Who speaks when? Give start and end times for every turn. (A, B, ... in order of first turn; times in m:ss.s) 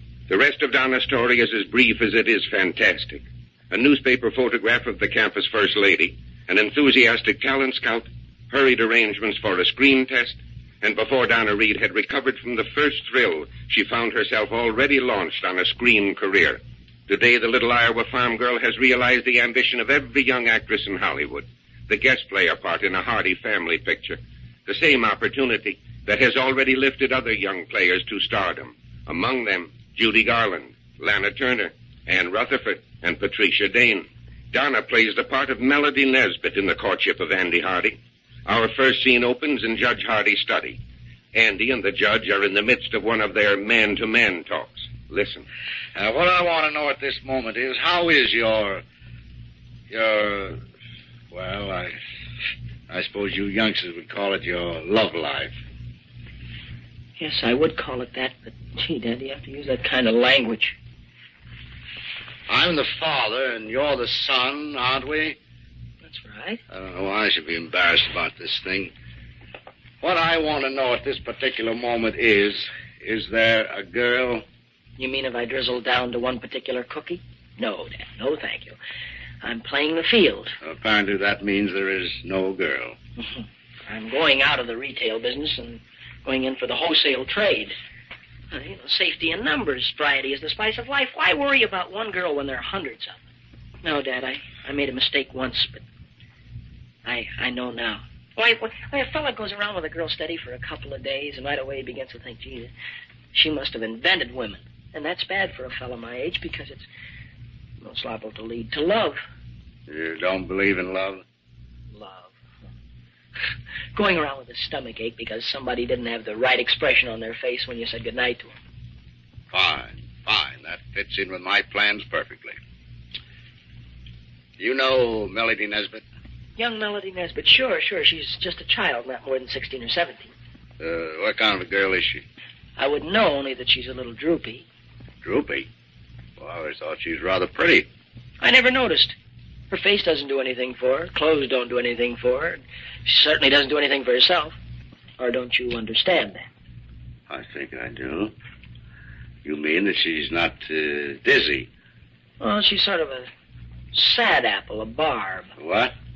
0:00.3-0:40.8 A
0:41.3-0:45.4 A
0:46.0-0:48.8 B
0:49.9-0:50.6 B
0:51.3-0:52.0 B
0:52.9-0:55.6 B
0:57.2-1:00.8 C
1:02.5-1:05.4 B
1:06.0-1:06.6 C
1:06.7-1:08.9 B
1:10.0-1:14.4 B
1:15.0-1:18.8 C
1:19.4-1:20.6 C
1:20.6-1:23.0 B
1:23.2-1:27.8 C
1:28.5-1:33.2 C
1:33.8-1:35.8 C
1:37.0-1:42.7 C
1:43.3-1:46.9 C
1:47.8-1:49.2 C
1:49.9-1:51.2 B
1:51.9-1:52.7 C
1:54.0-1:58.6 C
1:59.5-2:02.6 B
2:04.6-2:06.0 B
2:06.6-2:10.3 C
2:10.8-2:12.2 B
2:12.8-2:14.6 C
2:15.2-2:15.7 B
2:16.4-2:17.9 B
2:18.4-2:19.2 C
2:19.7-2:24.6 C
2:25.2-2:26.5 C
2:27.3-2:28.3 B
2:29.4-2:31.7 B
2:32.4-2:33.3 C
2:33.9-2:35.5 C
2:35.6-2:35.9 B